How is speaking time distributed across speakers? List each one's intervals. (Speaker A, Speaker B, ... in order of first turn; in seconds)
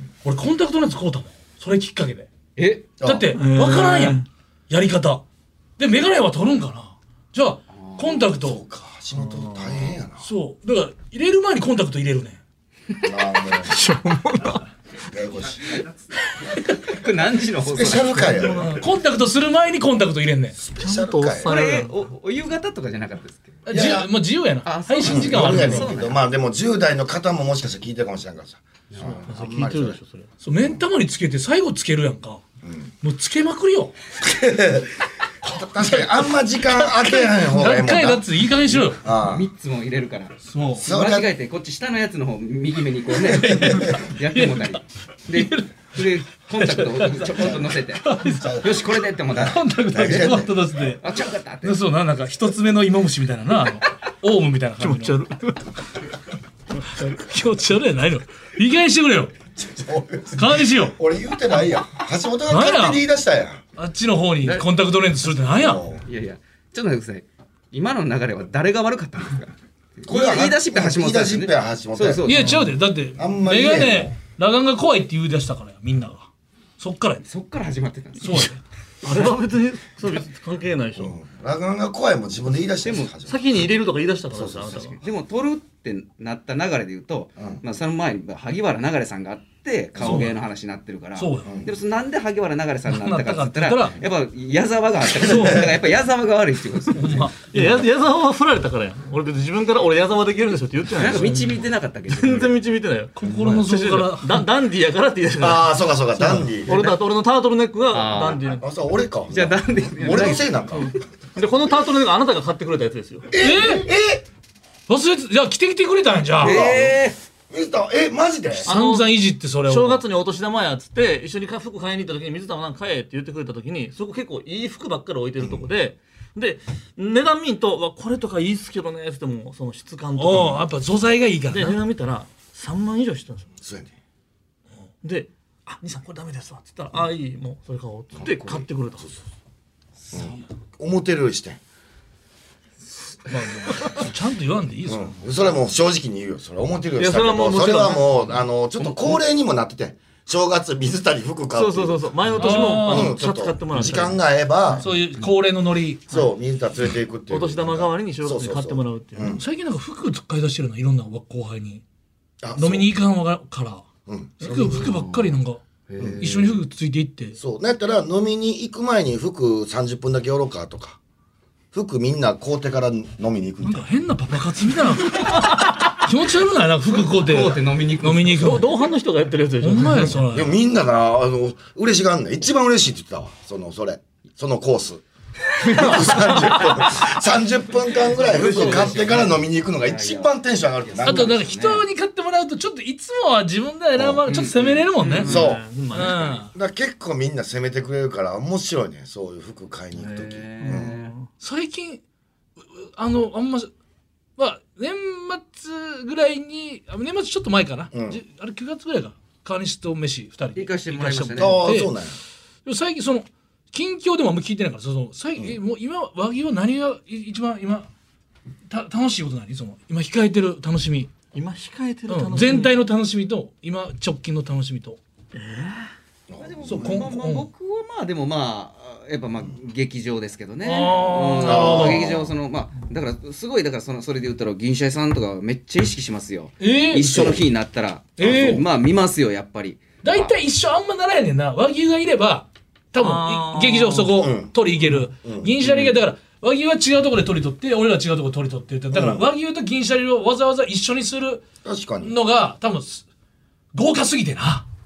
Speaker A: 0.2-2.3, 3.0-5.2, 5.8-8.6, 10.2-12.4, 18.6-20.6, 23.7-25.9, 30.4-32.4, 33.0-33.9, 35.5-36.0, 36.7-39.0, 40.5-40.9, 43.3-48.6, 49.4-51.0, 51.6-55.2, 57.0-59.3, 60.4-61.0, 62.5-63.0, 63.8-65.8, 72.3-77.2, 78.2-79.4, 90.0-90.3, 91.2-91.5, 92.9-94.0, 95.2-95.7, 96.9-97.8, 103.2-104.5, 113.4-113.9, 114.9-116.6, 118.7-120.0, 130.2-131.8, 143.3-145.2, 152.4-153.2, 154.8-156.1, 159.4-161.8, 162.6-163.8, 164.4-165.6, 166.2-167.4, 173.6-178.7, 179.6-180.6, 191.1-195.3, 195.9-196.5, 201.4-202.0, 202.7-203.7, 204.4-211.9, 212.7-217.9, 218.7-221.1, 222.1-225.0, 226.7-227.5, 230.6-232.0, 236.6-237.4, 238.2-238.6, 240.0-251.4, 252.0-253.1, 253.7-254.7
Speaker B: 2.6-2.9, 7.7-8.2, 16.8-18.4, 21.4-23.7, 24.6-26.2, 28.9-29.2, 39.2-48.0, 48.6-50.2, 51.0-51.8, 66.0-72.7, 77.2-78.5, 82.8-83.1, 84.8-97.3, 100.9-102.6, 107.9-108.6, 109.3-110.6, 116.4-117.2, 138.2-138.7, 140.1-140.4, 148.8-149.2, 164.8-165.3, 165.9-166.6, 176.9-178.6, 185.7-186.9, 188.2-191.8, 194.3-195.6, 199.9-201.1, 210.6-211.7, 226.4-240.3, 245.6-245.9
Speaker C: 3.0-3.3, 8.4-10.3, 13.0-13.8, 15.1-15.8, 17.7-18.7, 20.6-21.6, 23.7-24.1, 25.0-30.0, 32.6-32.9, 34.2-39.5, 40.8-41.3, 43.3-44.0, 48.3-48.9, 49.9-51.0, 59.6-63.6, 65.5-66.0, 70.1-72.3, 73.2-74.1, 81.0-83.7, 84.3-84.9, 91.5-91.7, 95.2-95.8, 103.3-103.7, 105.4-106.8, 108.6-110.9, 113.3-114.2, 116.4-118.7, 125.4-125.7, 133.6-133.9, 140.1-141.6, 144.9-154.9, 156.1-159.4, 162.4-162.9, 164.1-165.0, 167.4-171.0, 171.7-173.9, 180.3-185.0, 185.6-191.4, 194.0-194.2, 195.2-200.9, 207.9-208.2, 211.4-212.2, 226.3-227.1, 231.4-232.3, 237.0-237.4, 244.1-244.6, 245.2-245.5, 248.9-249.3, 251.6-252.2
Speaker D: 3.3-4.3, 9.2-10.0, 13.7-14.6, 18.1-18.8, 20.8-21.9, 29.0-30.3, 54.8-55.7, 79.0-81.2, 83.2-85.0, 97.5-108.6, 110.0-113.3, 118.7-130.7, 131.5-133.5, 135.0-139.2, 147.0-148.3, 151.6-154.2, 157.3-159.4, 178.4-180.2, 188.1-189.3, 195.0-196.4, 200.6-201.3, 221.3-222.7, 225.3-225.9, 243.0-244.2